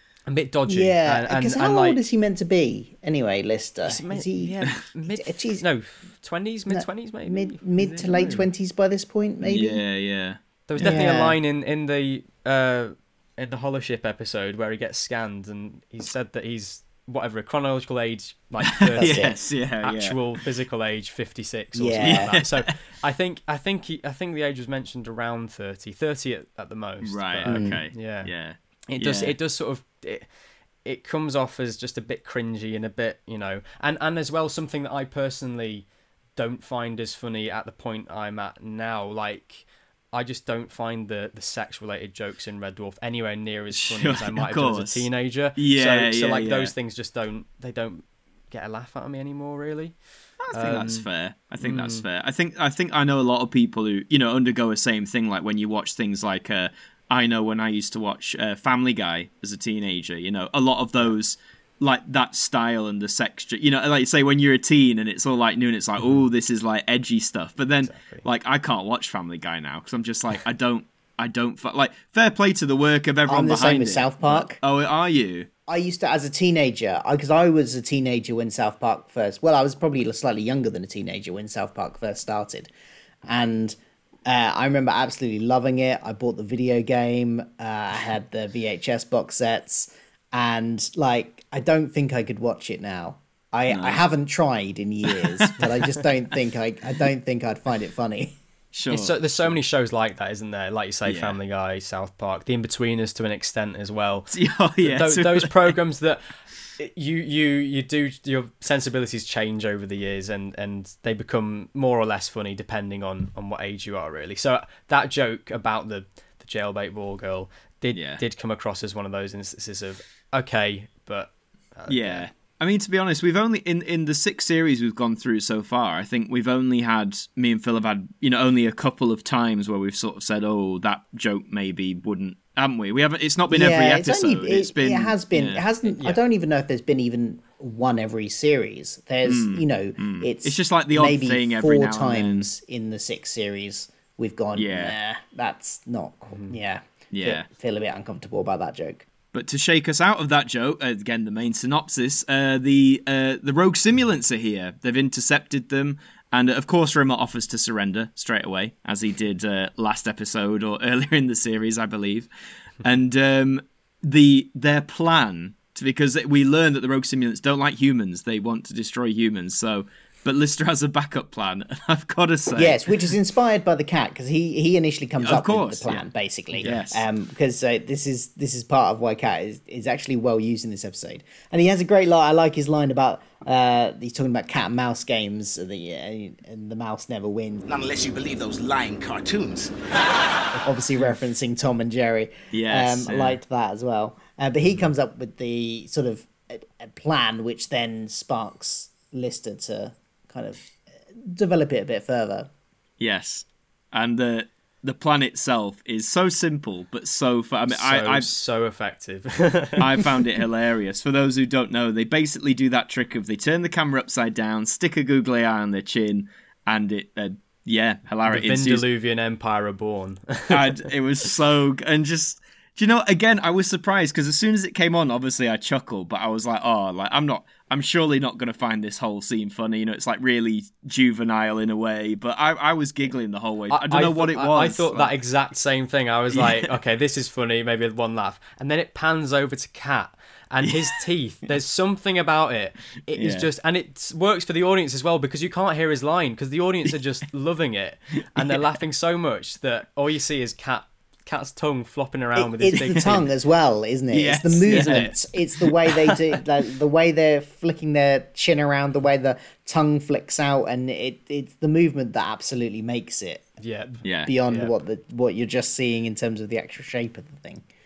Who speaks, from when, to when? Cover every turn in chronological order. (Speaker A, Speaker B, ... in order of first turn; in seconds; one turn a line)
Speaker A: 0.3-2.0
Speaker B: 0.7-4.6
Speaker A: 3.9-7.6
Speaker B: 5.1-5.6
Speaker B: 6.7-9.8
Speaker C: 7.8-8.5
Speaker C: 9.4-11.0
Speaker A: 10.7-28.3
Speaker B: 10.8-11.4
Speaker C: 18.6-20.2
Speaker B: 19.0-19.4
Speaker B: 21.7-22.4
Speaker C: 22.0-22.8
Speaker C: 27.0-29.4
Speaker B: 27.5-27.8
Speaker A: 28.9-30.3
Speaker A: 30.8-50.0
Speaker C: 43.7-45.0
Speaker C: 45.6-46.7
Speaker C: 50.4-75.5
Speaker A: 50.5-51.1
Speaker A: 51.6-52.0
Speaker A: 67.8-68.2
Speaker B: 73.3-74.6
Speaker B: 75.7-82.7
Speaker B: 83.2-98.4
Speaker C: 93.7-94.0
Speaker C: 95.1-95.9
Speaker C: 98.7-99.5
Speaker A: 98.9-122.3
Speaker C: 101.0-101.4
Speaker C: 104.3-105.7
Speaker C: 117.9-118.2
Speaker C: 121.9-135.6
Speaker B: 133.5-149.1
Speaker A: 135.8-136.2
Speaker C: 139.2-142.5
Speaker C: 144.5-144.9
Speaker A: 146.3-146.5
Speaker C: 147.1-147.5
Speaker C: 149.3-162.3
Speaker C: 162.8-173.2
Speaker B: 172.5-187.7
Speaker C: 175.2-176.1
Speaker C: 176.6-177.0
Speaker D: 187.7-190.3
Speaker B: 190.6-202.5
Speaker C: 192.5-193.4
Speaker C: 203.0-208.3
Speaker A: 207.7-210.0
Speaker C: 209.8-218.8
Speaker A: 218.3-220.8
Speaker C: 220.5-235.1
Speaker A: 233.7-253.3
Speaker C: 236.3-236.7
Speaker C: 240.6-241.0
Speaker C: 243.2-243.5
Speaker B: 252.3-263.5
Speaker C: 254.1-255.1
Speaker A: 254.7-255.1
Speaker A: 263.6-264.7
Speaker C: 264.0-264.3
Speaker B: 264.2-267.6